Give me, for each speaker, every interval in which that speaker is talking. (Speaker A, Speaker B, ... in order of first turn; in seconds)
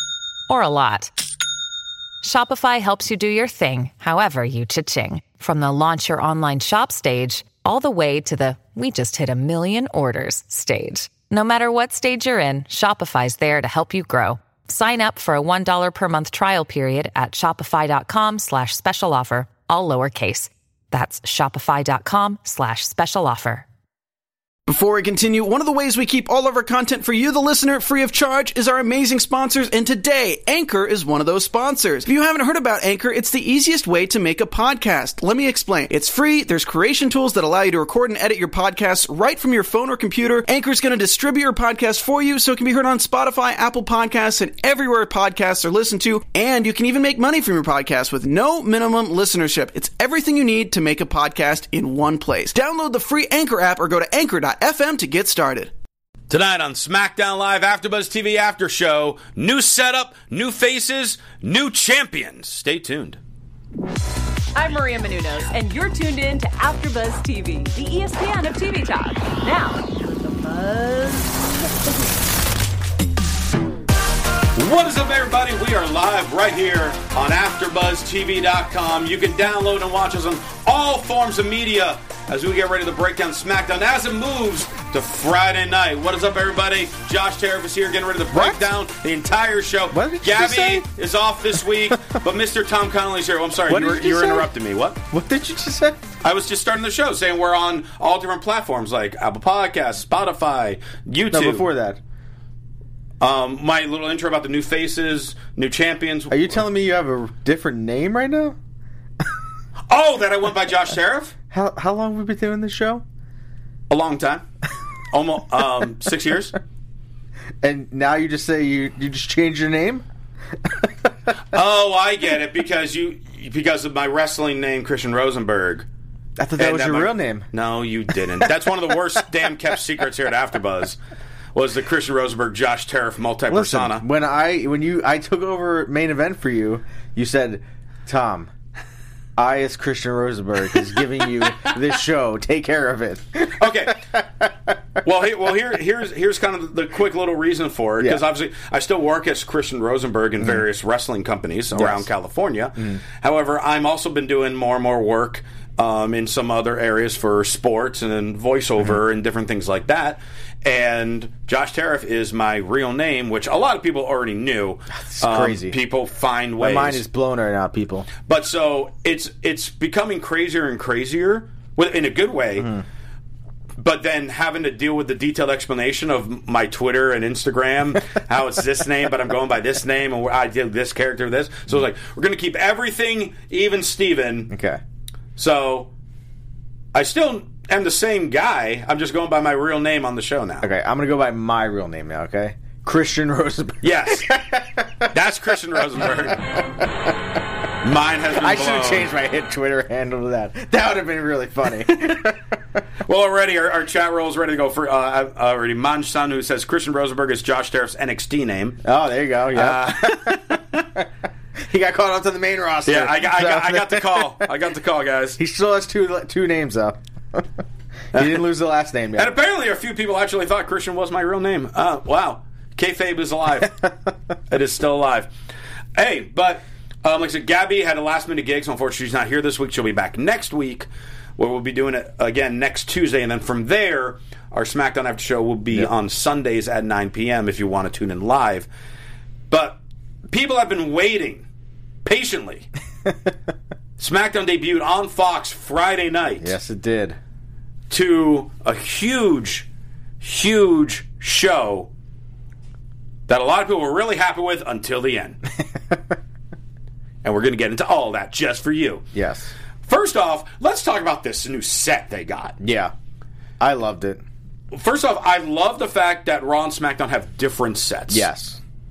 Speaker A: 0.5-1.1, 2.2-23.6
Speaker B: 24.7-55.7
Speaker C: 56.3-63.2, 74.5-95.0, 96.2-101.7, 103.2-106.6, 109.9-111.3, 113.9-114.4, 115.1-116.5, 121.5-125.8, 126.6-131.0, 131.5-134.0, 143.6-144.0, 145.0-167.0, 168.3-172.8, 173.8-184.5, 185.3-185.9, 186.9-190.7, 193.8-194.3, 195.1-196.5, 197.8-199.1, 201.9-202.2, 203.1-208.8, 209.5-210.8, 212.8-215.4, 218.1-218.5, 219.1-223.9, 224.5-225.3, 225.9-238.7, 239.5-241.4, 242.0-242.7, 244.0-246.6, 247.9-249.7, 250.2-251.9, 253.3-255.4, 257.2-259.1, 259.8-262.6, 264.7-268.3
Speaker D: 64.5-71.9
Speaker E: 88.3-88.6, 89.9-90.9, 93.7-94.5, 95.1-96.0, 101.3-102.0, 106.3-108.6, 111.5-113.0, 117.6-120.0, 126.4-127.5, 133.5-138.5, 139.3-144.7, 151.7-152.1, 165.0-165.8, 166.6-168.1, 184.5-184.8, 190.6-195.1, 196.0-197.2, 198.3-202.5, 208.8-211.0, 211.6-214.5, 215.4-217.4, 218.1-219.3, 246.4-247.2, 259.1-259.5, 262.6-262.9, 263.6-264.2, 268.1-268.6